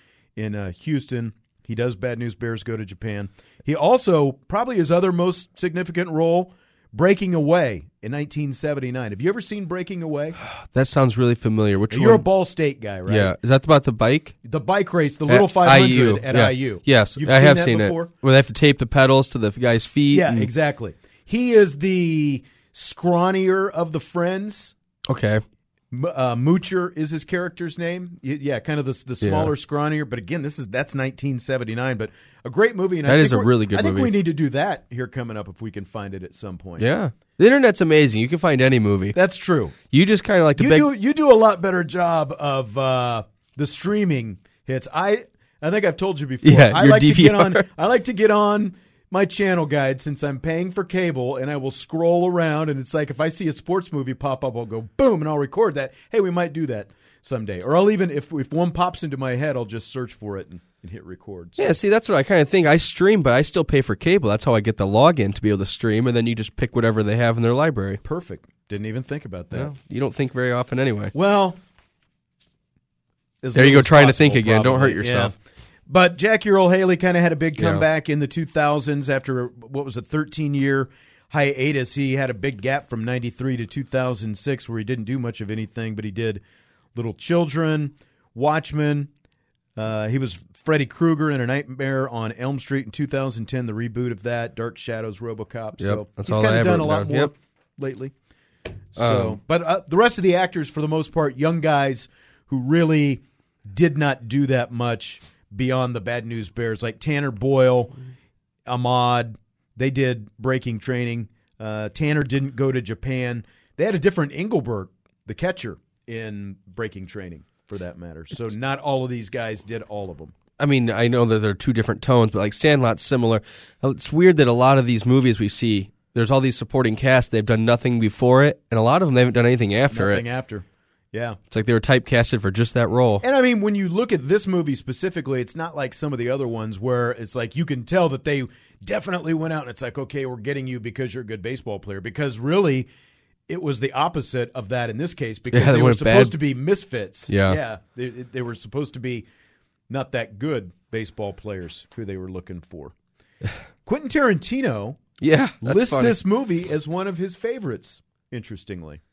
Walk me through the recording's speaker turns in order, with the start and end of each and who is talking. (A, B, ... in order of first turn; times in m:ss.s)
0:00.4-0:10.4 A
0:10.4-0:12.2 B
0:11.9-0:13.3 A
0:13.1-0:14.4 B
0:14.4-0:18.1 A
0:15.3-0:20.5 B
0:20.1-0:24.7 A
0:25.1-0:25.4 B
0:25.9-0:36.8 A
0:29.2-0:29.5 B
0:33.0-0:34.1 B
0:36.8-0:39.2 B
0:39.1-0:39.8 A
0:39.9-0:40.9 B
0:40.5-1:01.6 A
0:46.4-0:47.6 B
1:01.6-1:08.0 B
1:08.0-1:09.7 A
1:09.5-1:11.1 B
1:11.1-1:11.6 A
1:13.4-1:15.3 A
1:13.5-1:15.3 B
1:15.9-1:26.4 A
1:17.6-1:17.8 B
1:26.9-1:29.1 A
1:29.8-1:38.1 A
1:35.8-1:37.3 B
1:38.9-1:47.9 A
1:39.0-1:39.4 B
1:48.7-2:00.3 A
2:00.6-2:10.2 B
2:09.9-2:11.4 A
2:11.5-2:13.2 B
2:13.2-2:22.9 A
2:23.5-2:29.3 A
2:25.5-2:26.4 B
2:27.3-2:27.6 B
2:29.9-2:32.9 A
2:33.8-2:35.0 A
2:35.2-2:36.2 B
2:35.6-2:39.0 A